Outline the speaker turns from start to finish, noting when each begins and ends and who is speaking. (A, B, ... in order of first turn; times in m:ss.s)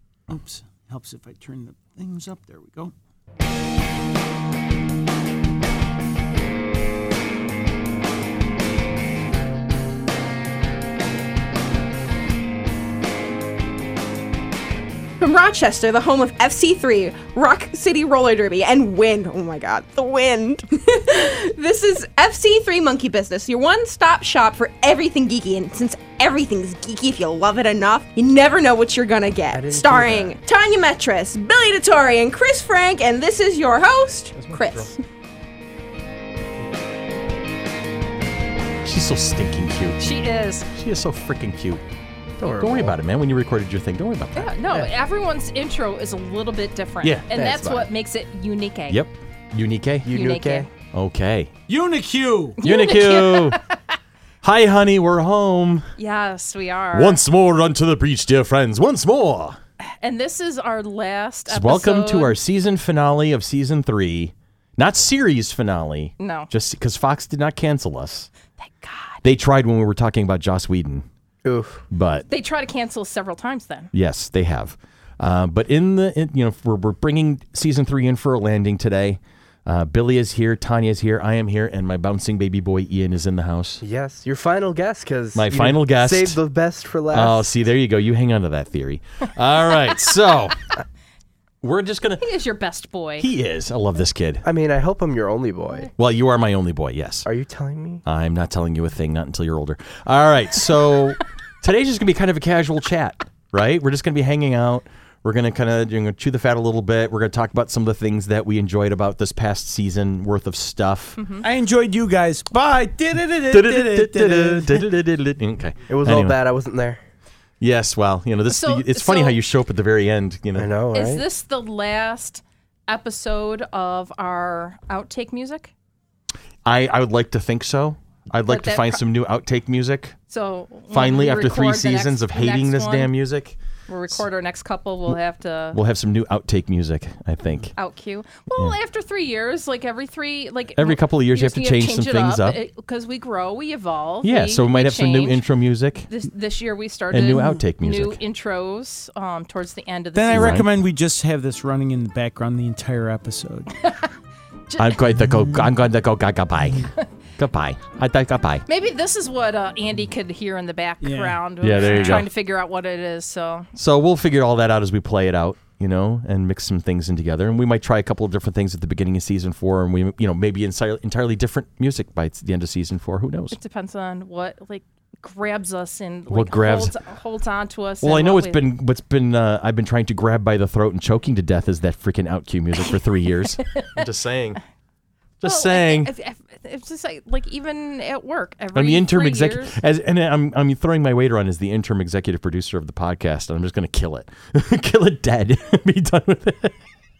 0:00.3-0:02.9 A
0:15.2-0:35.0 B
0:29.5-0:30.4 C
0:34.3-0:34.8 D
0:38.8-0:40.0 D
0:40.0-0:40.7 E
0:40.7-0:41.8 D
0:42.4-0:43.0 C
0:42.6-0:44.6 D
0:44.4-0:49.0 E
0:47.3-0:47.9 C
0:48.9-0:50.1 D
0:50.0-0:50.7 C
0:50.1-0:50.7 E
0:50.9-0:51.5 D
0:51.7-0:52.6 A
0:52.6-0:53.8 E
0:52.6-0:53.6 D
0:54.4-0:55.9 D
0:56.0-0:57.2 E
0:56.9-0:59.6 D
1:00.0-1:02.4 E
1:01.5-1:08.3 D
1:06.2-1:06.5 E
1:08.6-1:09.2 E
1:09.2-1:11.0 D
1:11.4-1:11.8 C
1:11.9-1:12.3 D
1:12.3-1:13.9 E
1:13.9-1:23.8 D
1:23.8-1:27.5 C
1:25.3-1:26.4 D
1:27.1-1:30.7 D
1:31.6-1:32.2 D
1:32.2-1:33.3 E
1:33.2-1:34.4 D
1:34.4-1:35.9 C
1:36.0-1:37.3 D
1:37.2-1:38.0 C
1:38.0-1:51.2 D
1:51.2-1:51.4 E
1:51.4-1:54.8 A
1:53.5-1:56.4 D
1:55.9-1:57.0 C
1:57.6-2:00.8 D
1:58.5-1:59.4 E
2:00.5-2:01.2 C
2:00.9-2:05.7 E
2:06.6-2:10.2 D
2:08.4-2:09.0 E
2:10.3-2:13.1 E
2:10.9-2:13.6 D
2:13.9-2:15.8 E
2:15.7-2:17.7 D
2:17.7-2:25.4 E
2:20.8-2:22.6 D
2:24.2-2:26.1 D
2:26.1-2:30.6 E
2:27.1-2:28.2 D
2:30.1-2:33.7 A
2:30.3-2:30.7 D
2:33.8-2:34.1 E
2:34.7-2:35.0 E
2:34.8-2:38.6 D
2:38.7-2:43.7 E
2:41.0-2:41.4 A
2:41.6-2:42.3 D
2:43.8-2:53.6 D
2:53.5-2:58.7 E
2:56.3-2:56.9 D
2:58.0-3:04.6 D
3:03.6-3:04.0 E
3:05.4-3:06.1 D
3:05.4-3:09.8 E
3:08.7-3:16.8 D